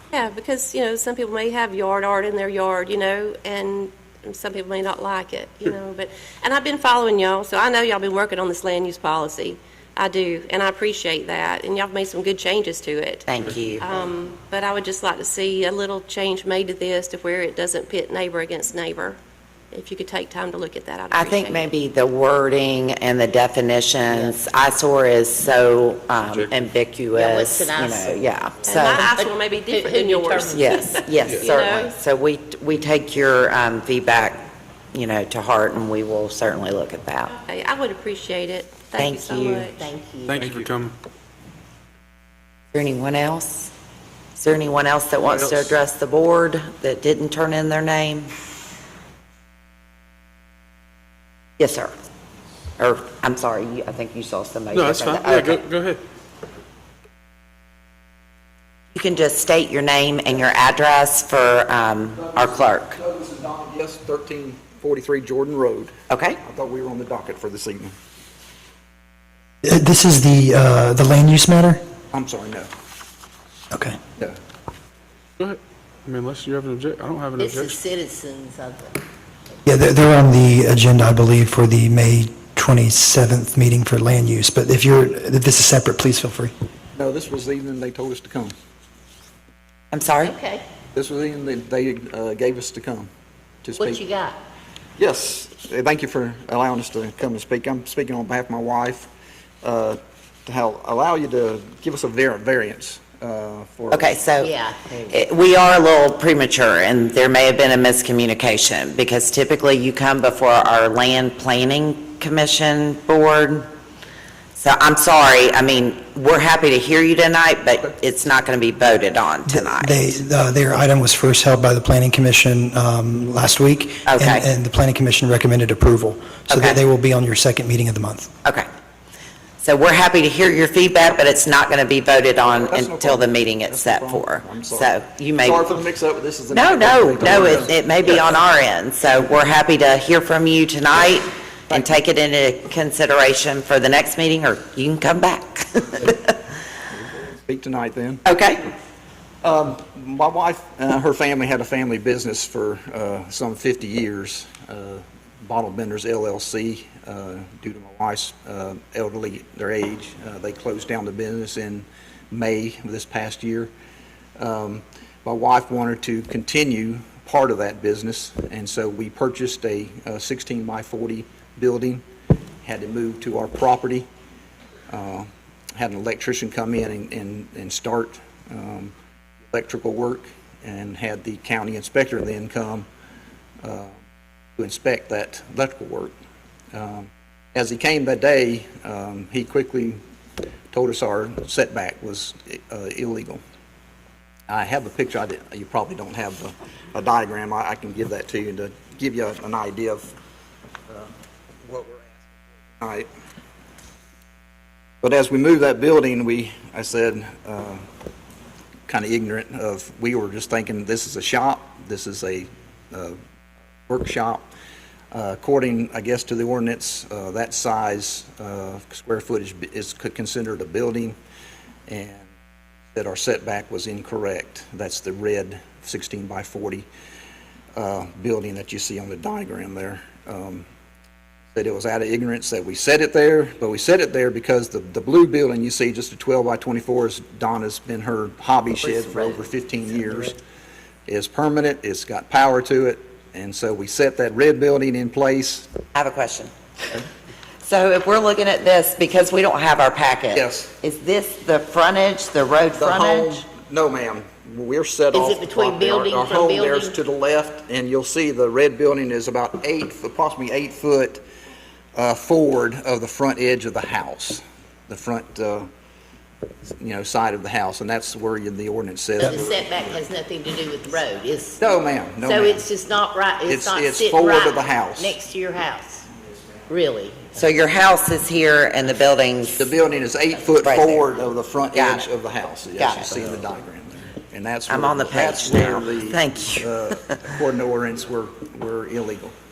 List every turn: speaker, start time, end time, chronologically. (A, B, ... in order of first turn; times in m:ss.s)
0:00.1-0:13.3 A
0:13.3-0:13.9 B
0:13.8-0:19.2 A
0:19.7-0:21.7 A
0:21.1-0:29.1 B
0:24.1-0:24.4 C
0:26.2-0:26.5 D
0:27.1-0:28.3 C
0:28.6-0:32.0 A
0:29.1-0:31.0 C
0:30.5-0:37.3 B
0:37.3-0:39.9 A
0:39.0-0:39.7 B
0:39.7-0:40.4 C
0:40.3-0:40.9 D
0:42.7-0:43.7 B
0:44.4-0:48.3 B
0:45.3-0:45.7 D
0:51.6-0:51.9 B
0:52.8-0:55.6 B
0:54.7-0:56.0 D
0:58.9-1:03.0 B
1:02.2-1:07.9 E
1:06.1-1:06.4 B
1:09.6-1:11.8 F
1:12.1-1:12.7 E
1:13.7-1:14.0 F
1:15.4-1:17.8 D
1:17.4-1:19.0 C
1:19.7-1:26.5 F
1:27.0-1:28.5 E
1:29.9-1:30.3 B
1:30.2-1:30.6 C
1:30.9-1:33.1 E
1:33.6-1:34.0 E
1:33.8-1:34.4 C
1:35.0-1:39.1 E
1:39.6-1:44.2 E
1:43.9-1:44.5 B
1:44.4-1:45.2 C
1:45.1-1:53.7 B
1:54.6-2:00.0 B
1:59.5-2:08.3 F
2:04.0-2:04.5 B
2:06.5-2:06.8 B
2:09.6-2:15.7 B
2:12.6-2:18.4 E
2:16.5-2:26.4 B
2:26.9-2:28.2 E
2:28.2-2:28.7 B
2:29.4-2:43.7 E
2:44.4-2:52.0 E
2:52.6-2:54.1 E
2:54.9-3:02.9 E
3:03.6-3:04.0 E
3:04.6-3:06.2 E
3:06.7-3:10.0 E
3:10.7-3:13.4 E
3:14.5-3:20.1 E
3:21.7-3:23.1 E
3:25.0-3:27.8 E
3:28.9-3:33.2 E
3:33.9-3:34.5 E
3:35.1-3:41.2 E
3:41.9-3:42.3 E
3:42.9-3:46.9 E
3:47.8-3:50.7 E
3:51.5-4:00.4 E
4:01.1-4:05.7 E
4:05.9-4:07.0 B
4:07.6-4:13.4 B
4:10.3-4:10.7 E
4:12.8-4:21.2 E
4:15.1-4:17.0 C
4:22.0-4:25.7 E
4:26.8-4:30.0 E
4:29.2-4:31.7 C
4:31.6-4:32.7 E
4:32.2-4:36.1 C
4:33.5-4:35.2 E
4:36.7-4:37.3 C
4:37.3-4:39.7 B
4:39.6-4:49.3 E
4:40.5-4:41.1 B
4:41.7-4:42.1 B
4:42.8-4:43.3 B
4:44.7-4:47.2 B